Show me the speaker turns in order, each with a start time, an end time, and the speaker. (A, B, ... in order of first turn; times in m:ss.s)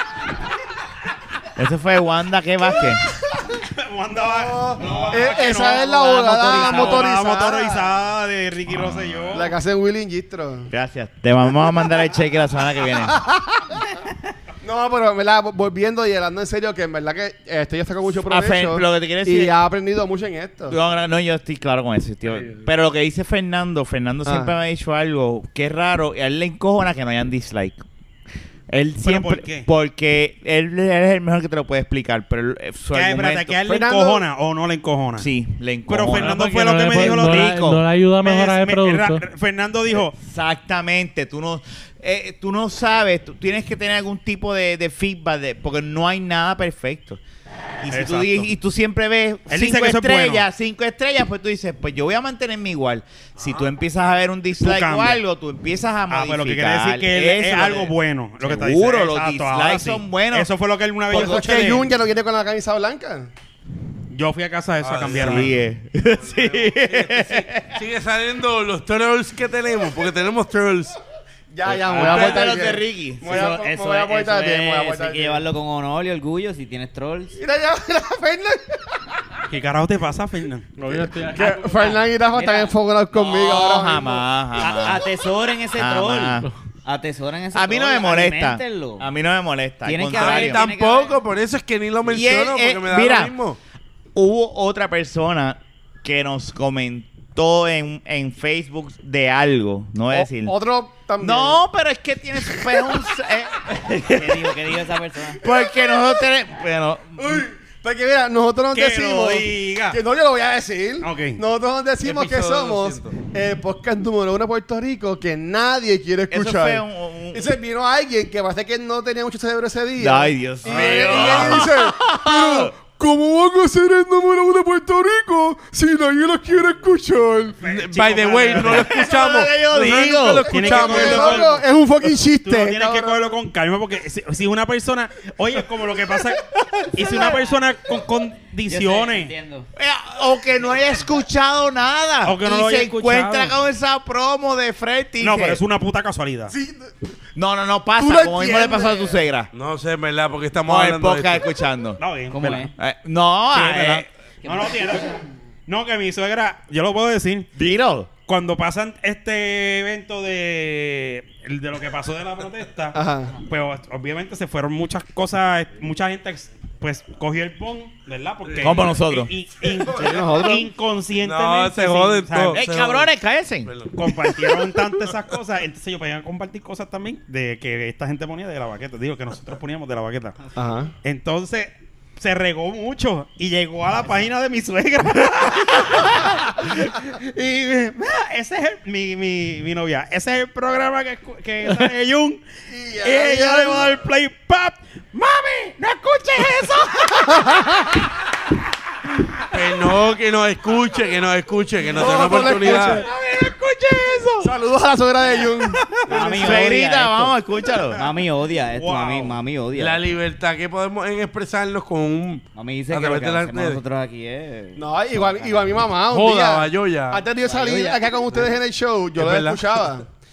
0:01.6-0:03.0 A
0:03.6-0:09.5 B
0:04.1-0:07.8 C
0:04.8-0:07.1 D
0:08.7-0:09.4 A
0:09.3-0:10.7 C
0:10.7-0:13.2 A
0:13.0-0:13.8 C
0:14.6-0:20.8 C
0:18.3-0:19.5 A
0:20.7-0:27.8 A
0:22.2-0:22.7 E
0:24.2-0:24.5 C
0:28.7-0:33.9 A
0:29.0-0:29.7 B
0:32.9-0:35.3 B
0:33.7-0:34.2 C
0:35.2-0:37.8 A
0:35.9-0:37.6 B
0:36.1-0:39.2 E
0:38.2-0:40.1 B
0:40.1-0:47.2 A
0:47.8-1:00.5 A
0:47.9-0:48.5 B
0:49.5-0:50.4 B
0:53.4-0:53.6 F
0:54.6-0:55.2 B
0:56.1-1:01.9 B
1:01.1-1:03.3 C
1:04.1-1:05.5 B
1:04.8-1:05.6 F
1:05.1-1:07.8 A
1:06.2-1:11.0 F
1:11.5-1:15.4 C
1:11.7-1:13.6 A
1:12.0-1:12.4 D
1:13.2-1:17.4 D
1:17.4-1:19.0 C
1:19.5-1:20.7 B
1:20.8-1:21.8 E
1:21.2-1:24.2 C
1:21.4-1:23.8 D
1:23.4-1:25.0 A
1:24.6-1:29.1 D
1:25.8-1:26.5 A
1:27.5-1:30.7 A
1:29.8-1:31.2 D
1:30.1-1:33.6 F
1:32.0-1:33.3 A
1:34.1-1:40.5 A
1:40.1-1:41.6 C
1:41.2-1:44.6 A
1:43.9-1:45.4 D
1:45.4-1:47.4 A
1:45.6-1:46.0 C
1:47.2-2:07.6 C
1:48.7-1:50.0 B
1:51.0-1:51.4 B
1:52.0-1:53.2 F
1:56.3-1:57.5 A
2:00.0-2:02.7 A
2:00.6-2:01.7 F
2:07.6-2:09.0 B
2:07.6-2:11.5 F
2:08.6-2:10.7 A
2:10.4-2:11.6 B
2:10.6-2:13.3 C
2:12.4-2:19.3 B
2:16.4-2:17.4 A
2:18.6-2:19.7 D
2:19.8-2:25.6 A
2:22.2-2:23.5 B
2:25.2-2:26.5 B
2:26.5-2:26.9 C
2:27.4-2:29.5 A
2:28.0-2:29.2 C
2:29.5-2:31.4 F
2:30.6-2:32.0 A
2:32.0-2:32.7 B
2:32.3-2:32.7 D
2:32.8-2:34.1 A
2:33.5-2:37.5 B
2:34.4-2:35.0 D
2:37.5-2:38.1 A
2:38.3-2:52.6 B
2:42.9-2:43.4 C
2:48.4-2:48.8 F
2:48.6-2:49.3 A
2:49.9-2:50.4 F
2:50.0-2:50.6 C
2:51.2-2:53.1 F
2:52.5-2:53.7 A
2:53.6-2:54.7 F
2:54.0-3:00.4 B
3:00.5-3:00.9 C
3:01.0-3:12.4 B
3:12.7-3:14.0 C
3:13.0-3:17.9 B
3:17.2-3:17.9 C
3:19.5-3:23.0 F
3:21.9-3:23.0 C
3:22.0-3:24.5 B
3:24.4-3:26.6 C
3:25.8-3:26.7 B
3:26.1-3:27.4 D
3:26.4-3:28.0 A
3:27.9-3:30.1 D
3:28.7-3:29.4 B
3:29.8-3:33.8 F
3:32.5-3:36.0 D
3:34.8-3:40.1 C
3:36.1-3:37.2 F
3:37.3-3:38.5 D
3:39.2-3:39.8 F